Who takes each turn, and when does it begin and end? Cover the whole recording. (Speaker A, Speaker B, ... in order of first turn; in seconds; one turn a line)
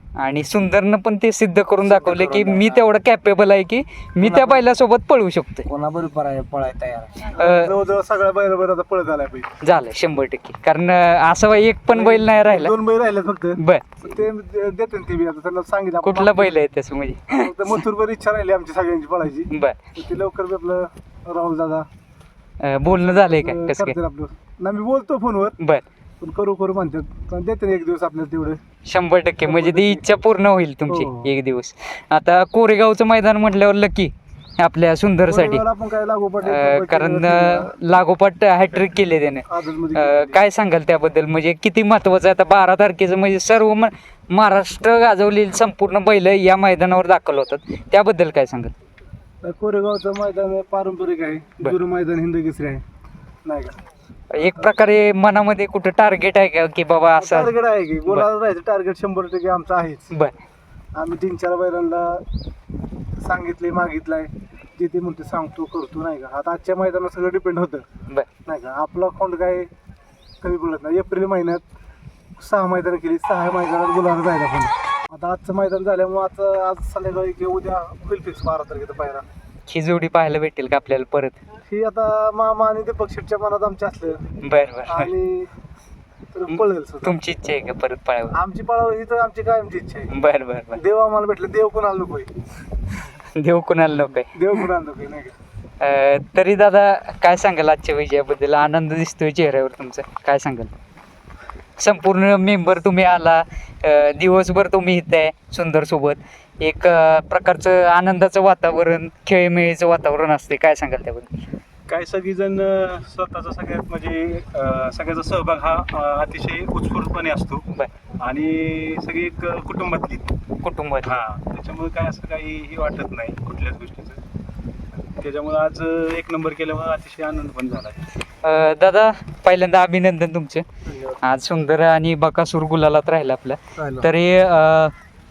Speaker A: 0.2-5.7
Speaker B: 1.8-2.9
Speaker B: 4.2-4.7
Speaker B: 5.7-7.3
Speaker C: 7.2-9.5
Speaker A: 7.4-7.7
Speaker A: 9.6-12.8
Speaker C: 11.9-16.6
Speaker A: 13.5-14.1
Speaker A: 16.0-17.8
Speaker C: 17.4-21.9
Speaker A: 19.5-19.8
Speaker A: 22.6-24.0
Speaker C: 23.0-25.6
Speaker A: 25.6-25.8
Speaker C: 26.2-28.6
Speaker A: 28.8-35.6
Speaker C: 29.4-30.1
Speaker C: 30.9-31.3
Speaker C: 35.2-37.7
Speaker A: 36.4-48.7
Speaker C: 39.5-40.4
Speaker C: 49.4-52.8
Speaker C: 53.4-53.8
Speaker A: 54.3-57.5
Speaker C: 57.1-60.1
Speaker A: 60.1-60.3
Speaker C: 60.9-62.2
Speaker C: 63.2-67.8
Speaker C: 68.4-69.7
Speaker C: 70.4-71.6
Speaker C: 72.4-79.2
Speaker A: 79.7-81.4
Speaker C: 81.7-84.2
Speaker A: 84.4-85.1
Speaker C: 84.8-85.5
Speaker C: 86.3-87.2
Speaker A: 86.5-88.4
Speaker C: 88.3-90.1
Speaker A: 90.1-90.8
Speaker C: 90.7-92.3
Speaker A: 93.2-94.7
Speaker C: 94.3-95.3
Speaker A: 95.8-100.7
Speaker A: 101.8-111.3
Speaker D: 111.9-117.6
Speaker D: 118.2-120.3
Speaker A: 120.6-121.2
Speaker D: 121.0-124.2
Speaker D: 125.2-128.0
Speaker A: 128.4-130.6
Speaker A: 131.2-134.9